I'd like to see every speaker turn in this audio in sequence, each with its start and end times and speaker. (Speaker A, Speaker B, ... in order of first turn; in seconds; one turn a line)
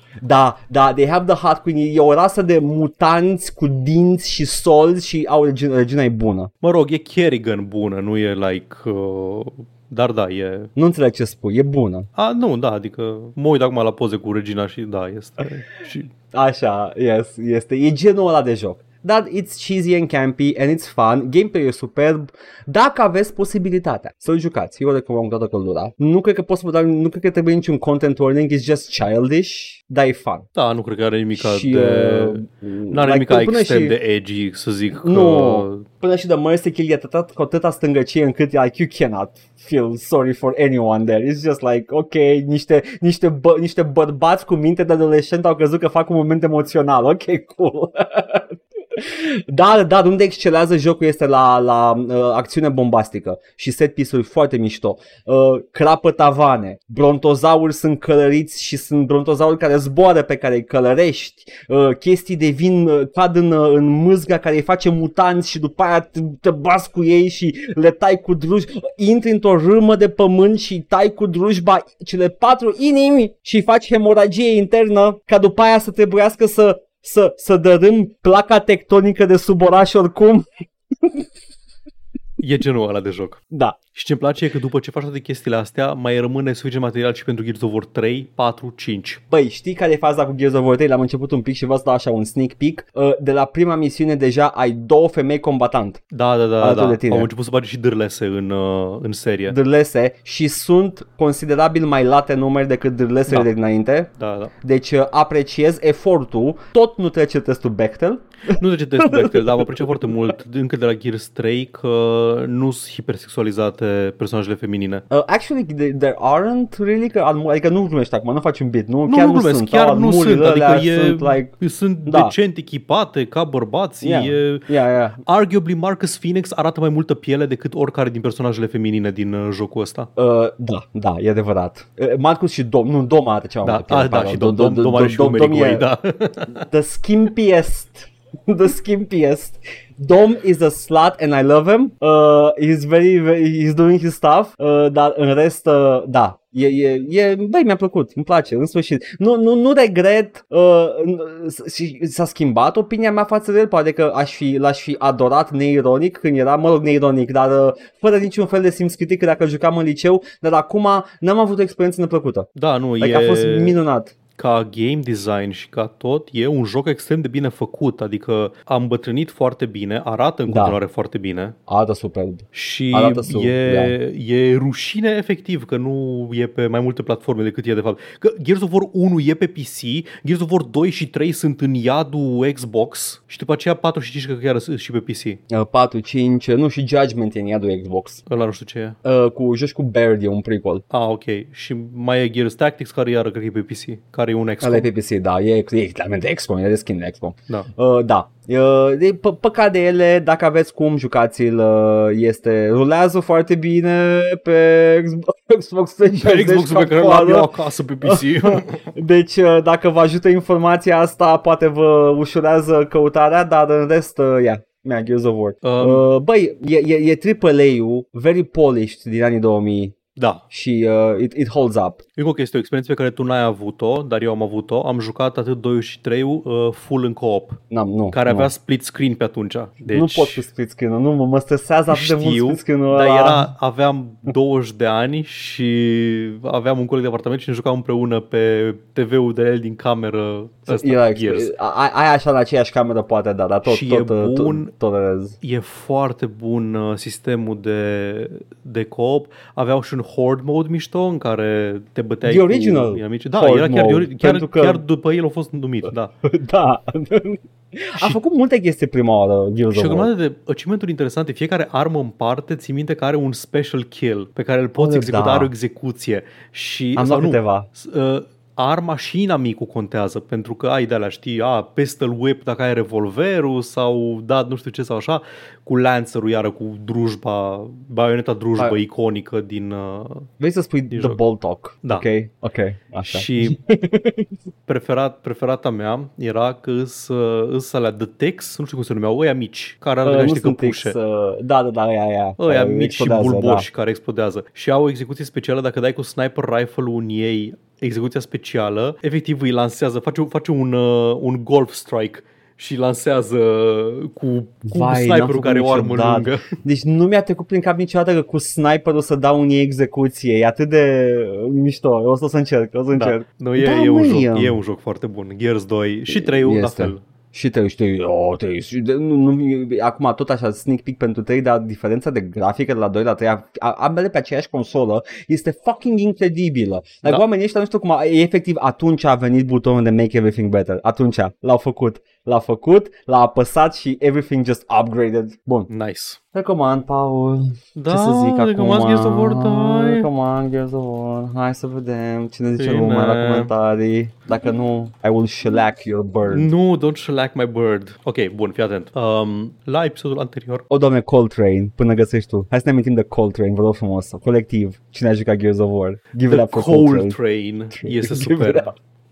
Speaker A: 0.2-6.5
Speaker B: 6.6-10.7
Speaker A: 10.8-12.1
Speaker B: 12.2-16.1
Speaker A: 16.3-30.5
Speaker B: 30.6-35.9
Speaker A: 31.4-34.0
Speaker A: 34.9-81.2
Speaker B: 82.4-83.4
Speaker A: 83.5-83.8
Speaker B: 83.9-89.2
Speaker A: 89.3-96.0
Speaker B: 96.1-99.5
Speaker A: 96.6-97.3
Speaker A: 99.5-104.1
Speaker B: 104.2-104.5
Speaker A: 104.6-110.1
Speaker B: 108.5-115.0
Speaker A: 115.1-121.5
Speaker B: 119.1-124.7
Speaker A: 122.1-122.3
Speaker A: 124.0-125.2
Speaker B: 125.2-130.1
Speaker A: 130.2-135.9
Speaker B: 133.6-136.6
Speaker A: 136.6-162.5
Speaker B: 162.6-163.8
Speaker A: 163.0-164.1
Speaker B: 164.4-171.6
Speaker A: 170.5-170.8
Speaker A: 171.7-173.9
Speaker B: 172.5-185.4
Speaker A: 185.5-188.2
Speaker B: 188.3-189.0
Speaker A: 189.0-190.8
Speaker B: 190.9-194.9
Speaker A: 194.6-207.5
Speaker B: 206.1-208.9
Speaker A: 208.0-220.0
Speaker B: 215.6-216.1
Speaker B: 220.2-220.4
Speaker A: 220.5-222.0
Speaker B: 222.2-227.6
Speaker A: 227.7-228.5
Speaker B: 228.1-230.4
Speaker A: 229.9-233.5
Speaker B: 231.9-241.5
Speaker A: 240.7-245.4
Speaker B: 243.7-244.7
Speaker B: 245.4-256.1
Speaker A: 252.2-254.8
Speaker A: 256.2-260.1
Speaker B: 259.7-280.3
Speaker A: 264.8-265.5
Speaker A: 267.0-267.7
Speaker A: 280.4-284.3
Speaker B: 280.9-281.2
Speaker B: 283.0-283.6
Speaker B: 284.7-291.0
Speaker A: 290.0-293.7
Speaker B: 292.4-306.4
Speaker A: 304.7-314.6
Speaker B: 312.9-317.0
Speaker A: 316.1-335.7
Speaker B: 335.7-336.2
Speaker A: 336.3-346.5
Speaker B: 337.8-340.1
Speaker B: 342.6-343.5
Speaker B: 346.3-350.6
Speaker A: 350.7-357.1
Speaker B: 356.3-358.7
Speaker A: 357.7-358.8